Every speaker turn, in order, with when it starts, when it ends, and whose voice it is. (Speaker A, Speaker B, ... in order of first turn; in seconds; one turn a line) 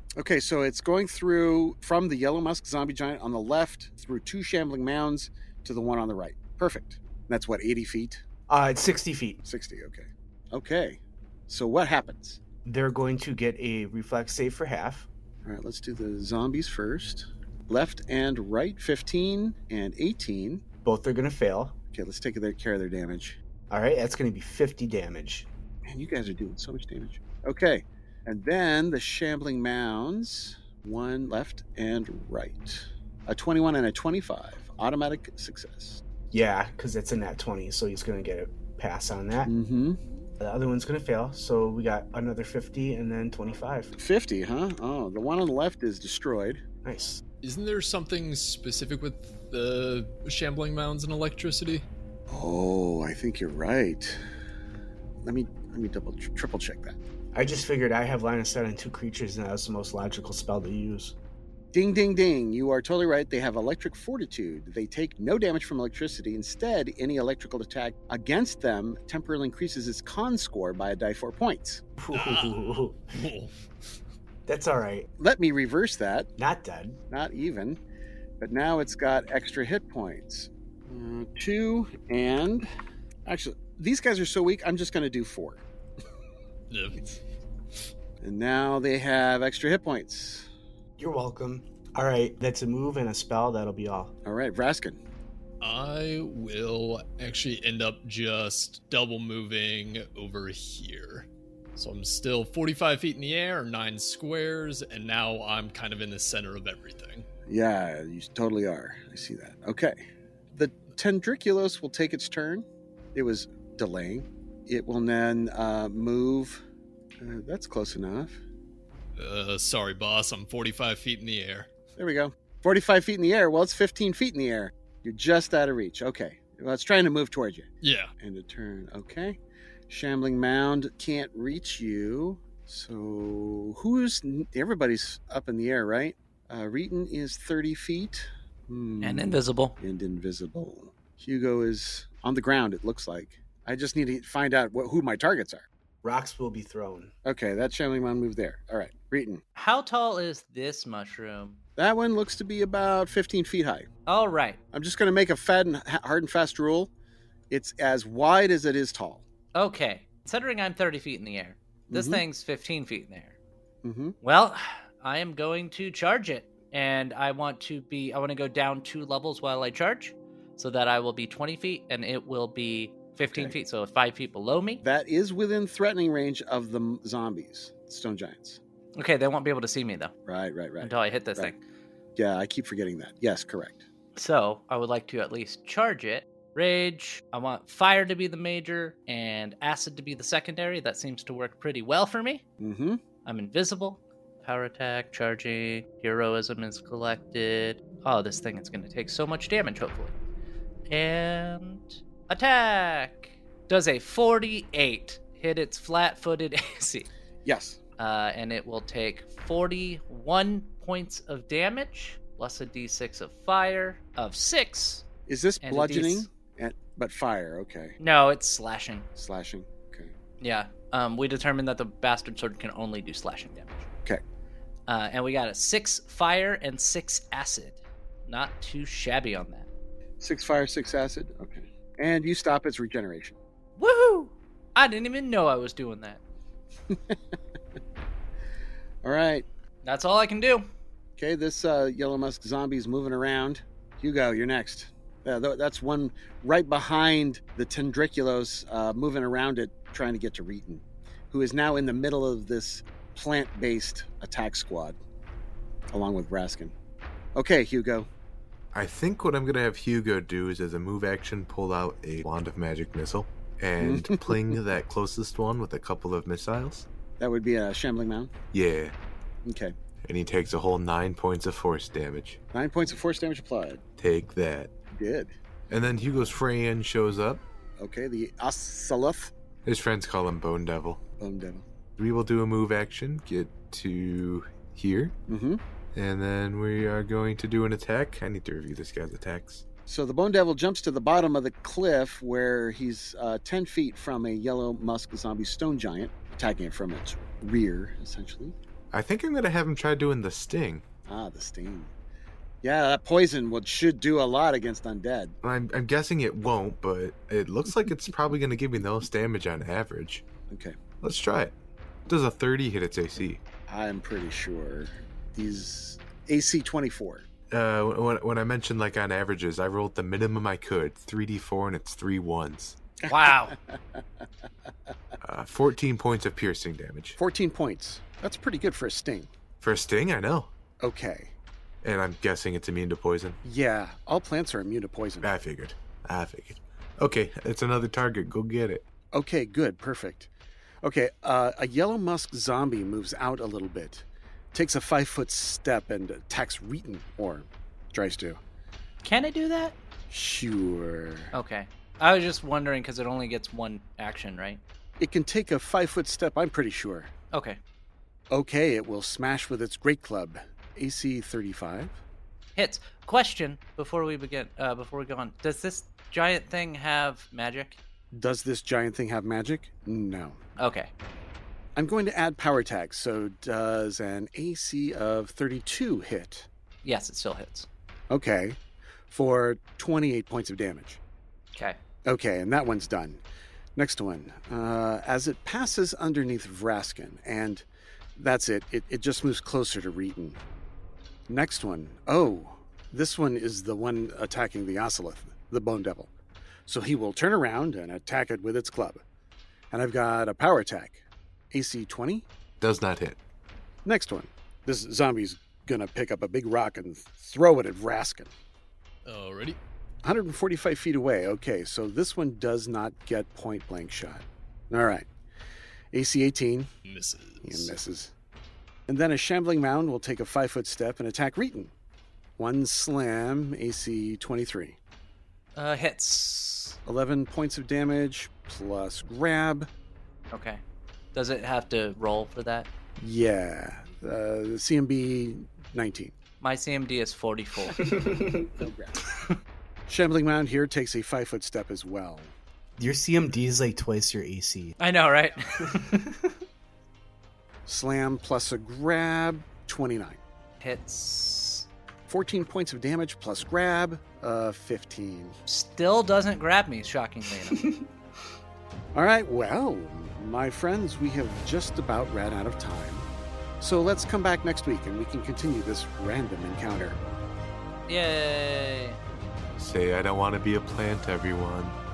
Speaker A: 0.2-8.2
Speaker B: 8.5-9.4
Speaker A: 9.4-12.4
Speaker B: 12.6-15.1
Speaker A: 15.4-20.6
Speaker B: 20.8-21.8
Speaker A: 21.9-23.4
Speaker B: 23.7-25.5
Speaker A: 25.9-36.0
Speaker B: 36.3-39.5
Speaker A: 39.5-40.0
Speaker B: 40.4-43.9
Speaker A: 43.9-46.6
Speaker B: 46.8-47.2
Speaker C: 47.4-51.9
Speaker A: 52.3-54.2
Speaker A: 55.2-57.0
Speaker B: 57.3-61.1
Speaker A: 61.7-71.8
Speaker B: 72.0-73.0
Speaker C: 72.1-73.9
Speaker B: 74.5-75.1
Speaker A: 75.2-76.3
Speaker B: 76.4-77.0
Speaker A: 77.1-77.8
Speaker A: 78.4-82.7
Speaker A: 83.2-85.6
Speaker C: 86.7-87.1
Speaker A: 88.2-90.5
Speaker B: 91.0-94.1
Speaker A: 94.2-95.0
Speaker C: 95.6-107.3
Speaker A: 107.5-110.0
Speaker A: 110.5-116.6
Speaker A: 117.2-118.4
Speaker C: 119.2-121.7
Speaker A: 122.0-127.7
Speaker C: 127.8-128.1
Speaker A: 128.2-145.7
Speaker D: 139.0-139.8
Speaker B: 146.0-147.1
Speaker A: 147.2-149.4
Speaker D: 149.6-151.6
Speaker A: 151.8-153.9
Speaker D: 154.1-154.6
Speaker A: 154.7-156.9
Speaker A: 157.5-159.2
Speaker D: 159.5-163.3
Speaker A: 161.9-162.2
Speaker A: 163.8-164.2
Speaker D: 164.2-174.8
Speaker A: 173.3-173.5
Speaker A: 174.8-178.6
Speaker D: 178.9-180.1
Speaker A: 180.3-181.5
Speaker D: 180.8-181.6
Speaker A: 182.2-183.8
Speaker D: 184.2-192.4
Speaker A: 192.6-193.0
Speaker D: 193.2-200.1
Speaker D: 200.9-207.1
Speaker A: 207.4-207.8
Speaker D: 208.0-215.1
Speaker A: 215.3-217.9
Speaker D: 215.6-216.3
Speaker D: 218.0-219.1
Speaker A: 219.1-220.1
Speaker D: 220.4-223.8
Speaker D: 224.9-229.7
Speaker A: 230.2-233.4
Speaker D: 233.8-236.2
Speaker A: 236.9-237.2
Speaker A: 239.0-239.4
Speaker D: 239.8-240.7
Speaker A: 241.2-255.0
Speaker A: 255.9-256.7
Speaker A: 257.3-258.1
Speaker E: 258.7-266.9
Speaker A: 263.8-264.5
Speaker A: 267.2-268.3
Speaker E: 268.5-268.9
Speaker A: 269.4-269.8
Speaker E: 270.0-272.4
Speaker A: 272.5-273.8
Speaker E: 274.0-274.7
Speaker A: 274.9-275.3
Speaker E: 275.7-277.4
Speaker A: 277.8-279.3
Speaker E: 279.6-281.0
Speaker A: 281.2-281.6
Speaker E: 282.0-285.1
Speaker A: 285.3-285.6
Speaker E: 285.9-289.6
Speaker A: 289.9-298.6
Speaker E: 298.9-300.8
Speaker A: 301.1-301.9
Speaker A: 302.6-305.4
Speaker E: 305.4-310.2
Speaker A: 310.5-310.8
Speaker E: 311.0-311.5
Speaker E: 312.1-313.4
Speaker A: 313.7-317.2
Speaker E: 317.5-322.8
Speaker A: 323.0-324.0
Speaker D: 323.1-323.6
Speaker E: 325.2-327.2
Speaker A: 327.2-329.3
Speaker E: 329.6-330.5
Speaker A: 330.8-331.3
Speaker E: 331.8-333.4
Speaker A: 333.4-335.3
Speaker E: 335.2-338.8
Speaker A: 339.1-340.3
Speaker A: 340.8-348.4
Speaker D: 349.0-349.8
Speaker A: 350.1-351.3
Speaker D: 351.3-354.6
Speaker A: 355.0-357.1
Speaker D: 357.3-357.6
Speaker A: 358.3-362.0
Speaker D: 362.6-367.8
Speaker A: 368.1-370.4
Speaker D: 370.6-370.9
Speaker A: 371.8-376.5
Speaker D: 376.8-377.7
Speaker A: 378.1-378.6
Speaker A: 379.1-381.0
Speaker A: 382.1-383.2
Speaker A: 383.8-387.6
Speaker A: 388.1-390.4
Speaker A: 391.3-396.1
Speaker A: 396.7-399.0
Speaker A: 399.7-402.3
Speaker E: 402.6-403.2
Speaker A: 403.8-408.3
Speaker C: 409.0-409.6
Speaker A: 410.0-415.1
Speaker A: 415.9-416.7
Speaker C: 416.8-417.7
Speaker A: 417.4-418.1
Speaker A: 418.9-421.7
Speaker A: 422.4-424.8
Speaker D: 425.5-426.8
Speaker A: 426.8-429.7
Speaker D: 430.3-430.6
Speaker D: 431.1-432.7
Speaker A: 433.0-436.1
Speaker D: 436.4-437.9
Speaker B: 437.8-438.5
Speaker A: 438.4-439.0
Speaker A: 439.9-442.3
Speaker B: 442.8-444.7
Speaker D: 444.8-445.9
Speaker B: 445.6-446.3
Speaker A: 447.6-450.2
Speaker D: 450.6-451.7
Speaker A: 452.1-455.4
Speaker D: 455.5-457.7
Speaker A: 458.9-463.1
Speaker A: 463.6-467.0
Speaker D: 467.9-469.0
Speaker E: 469.6-471.8